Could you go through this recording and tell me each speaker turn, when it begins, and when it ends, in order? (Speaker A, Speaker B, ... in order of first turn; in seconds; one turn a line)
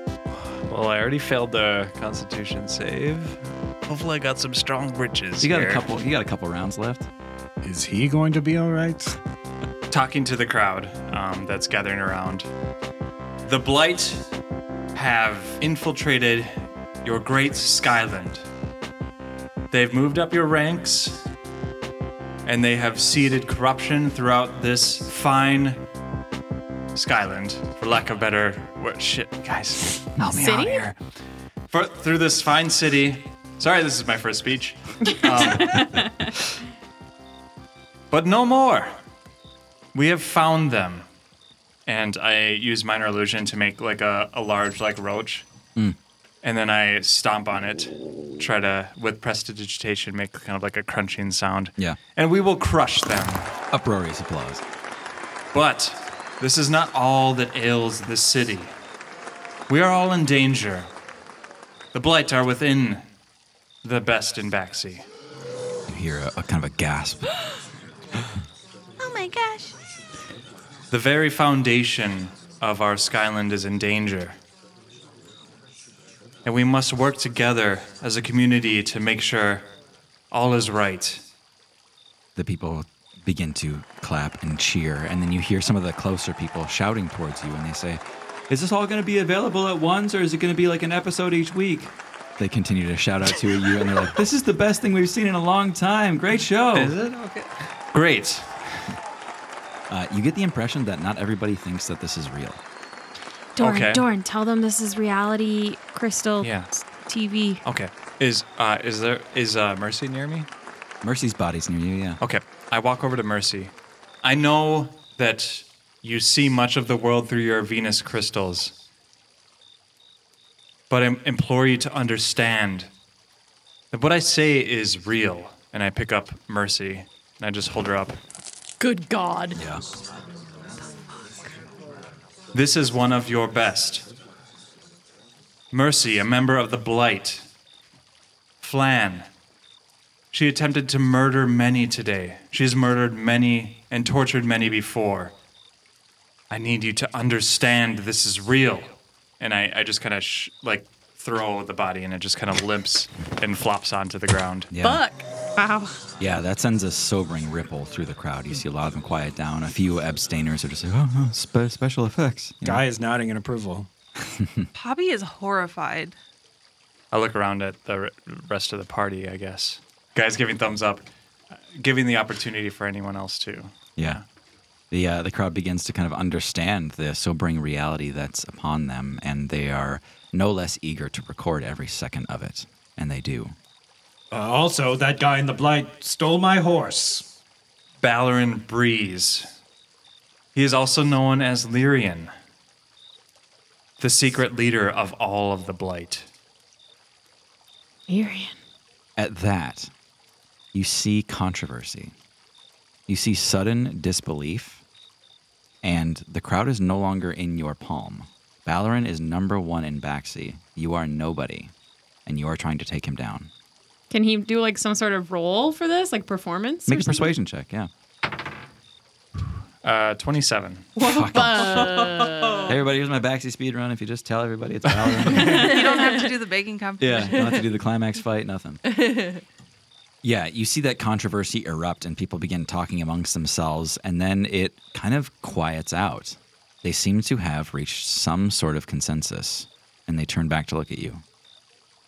Speaker A: 0.3-5.8
Speaker B: 5.4-7.1
Speaker C: 7.6-9.2
Speaker A: 9.9-12.5
Speaker A: 13.4-14.3
Speaker A: 14.9-18.4
Speaker A: 19.7-21.2
Speaker A: 22.4-25.9
Speaker A: 26.9-31.0
Speaker D: 30.2-30.9
Speaker A: 31.7-36.0
Speaker E: 35.1-36.2
Speaker A: 38.1-39.0
Speaker A: 39.9-41.0
Speaker A: 41.9-45.5
Speaker A: 46.4-53.5
Speaker B: 53.7-54.6
Speaker A: 55.5-58.7
Speaker A: 59.7-60.9
Speaker A: 61.9-63.1
Speaker A: 63.8-65.0
Speaker B: 65.9-67.5
Speaker F: 69.0-69.7
Speaker A: 70.9-74.4
Speaker A: 76.4-79.7
Speaker A: 80.3-81.3
Speaker B: 82.3-97.0
Speaker A: 96.7-97.4
Speaker A: 97.9-98.9
Speaker B: 99.9-102.6
Speaker E: 103.6-107.6
Speaker A: 103.6-104.0
Speaker A: 106.4-106.7
Speaker A: 107.6-110.5
Speaker B: 111.0-112.2
Speaker A: 112.2-118.7
Speaker A: 120.9-122.9
Speaker A: 123.9-128.2
Speaker D: 128.8-129.6
Speaker B: 129.5-129.8
Speaker A: 132.5-134.1
Speaker A: 135.7-137.4
Speaker A: 138.6-139.2
Speaker A: 140.3-145.3
Speaker A: 146.5-154.7
Speaker B: 154.7-155.0
Speaker E: 155.1-156.0
Speaker B: 156.2-162.8
Speaker C: 162.6-163.9
Speaker B: 164.4-164.7
Speaker F: 164.7-166.1
Speaker A: 167.1-174.2
Speaker B: 174.9-183.5
Speaker C: 184.3-187.3
Speaker A: 188.0-189.5
Speaker A: 190.5-192.3
Speaker A: 194.0-196.3
Speaker E: 198.1-198.6
Speaker B: 199.2-199.9
Speaker B: 200.7-202.1
Speaker B: 203.1-204.8
Speaker B: 205.8-211.7
Speaker B: 212.2-213.5
Speaker E: 214.1-217.3
Speaker B: 216.8-217.9
Speaker A: 219.8-221.0
Speaker B: 221.0-222.0
Speaker D: 221.0-222.7
Speaker F: 221.7-222.4
Speaker B: 222.7-225.8
Speaker E: 225.3-225.9
Speaker F: 225.4-227.6
Speaker B: 227.0-228.8
Speaker B: 230.2-241.2